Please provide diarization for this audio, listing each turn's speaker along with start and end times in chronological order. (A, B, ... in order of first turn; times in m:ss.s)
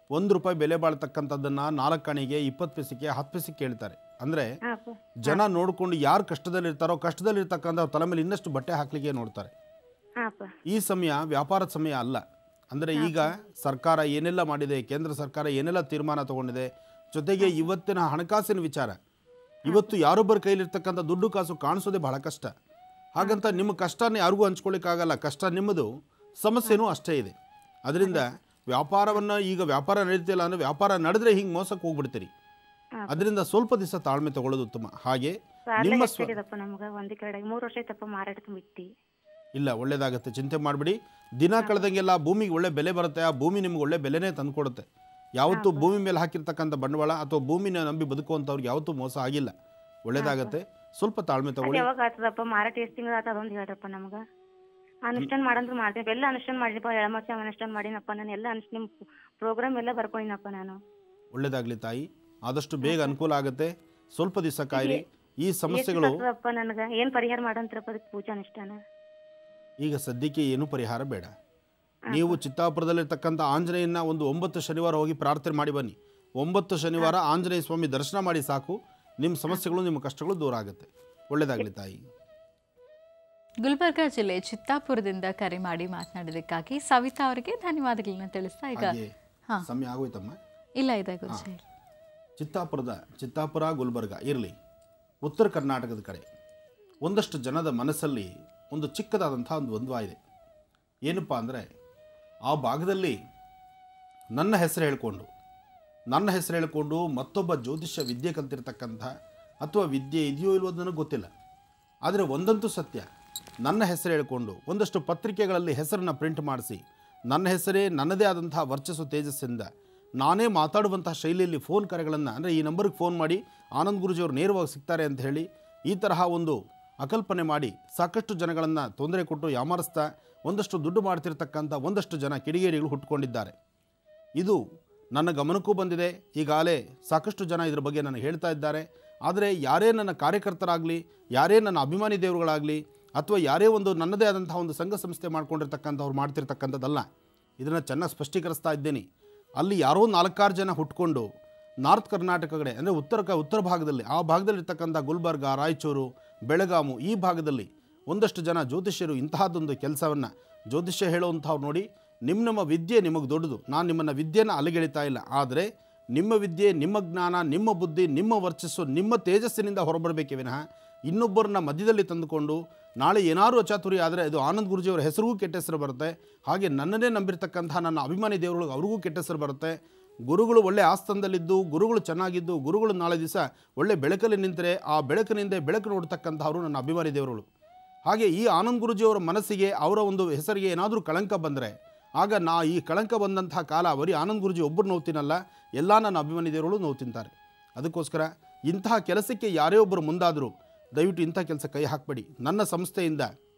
0:00.2-0:04.5 A
0:04.7-0:05.4 B
0:05.2-0:09.5 A
0:10.2-0:10.5 B
0:10.7-0:19.0 A
0:13.0-0:13.3 B
0:19.6-0:22.5 A
0:19.7-0:19.9 B
0:23.1-0:25.9 A
0:23.2-0:23.6 B
0:26.4-0:27.4 A
0:27.9-0:32.3 A
0:33.0-0:33.2 B
0:33.1-0:36.3 A
0:35.7-0:38.9 B
0:39.6-0:44.8 A
0:41.6-0:41.9 B
0:45.4-0:49.5 A
0:45.5-0:45.9 B
0:50.1-0:51.9 A
0:50.2-0:50.5 B
0:51.6-0:54.2 B
0:55.1-1:00.8 B
1:01.3-1:06.1 A
1:02.8-1:03.1 B
1:04.8-1:05.0 B
1:05.7-1:08.8 B
1:09.8-1:11.3 A
1:12.1-1:12.4 B
1:12.1-1:22.0 A
1:23.6-1:29.0 C
1:28.8-1:29.1 A
1:29.6-1:30.4 A
1:30.8-1:31.6 C
1:32.4-1:34.5 A
1:35.2-1:36.3 A
1:37.0-1:40.2 A
1:41.0-1:41.7 A
1:42.5-1:43.2 A
1:44.4-1:45.3 A
1:46.1-1:49.1 A
1:49.6-1:51.3 A
1:52.1-1:53.1 A
1:53.6-2:13.5 A
2:15.2-2:27.1 A
2:27.6-2:29.0 A
2:29.6-2:31.3 A
2:31.8-2:59.7 A
3:00.3-3:07.5 A
3:08.1-3:23.3 A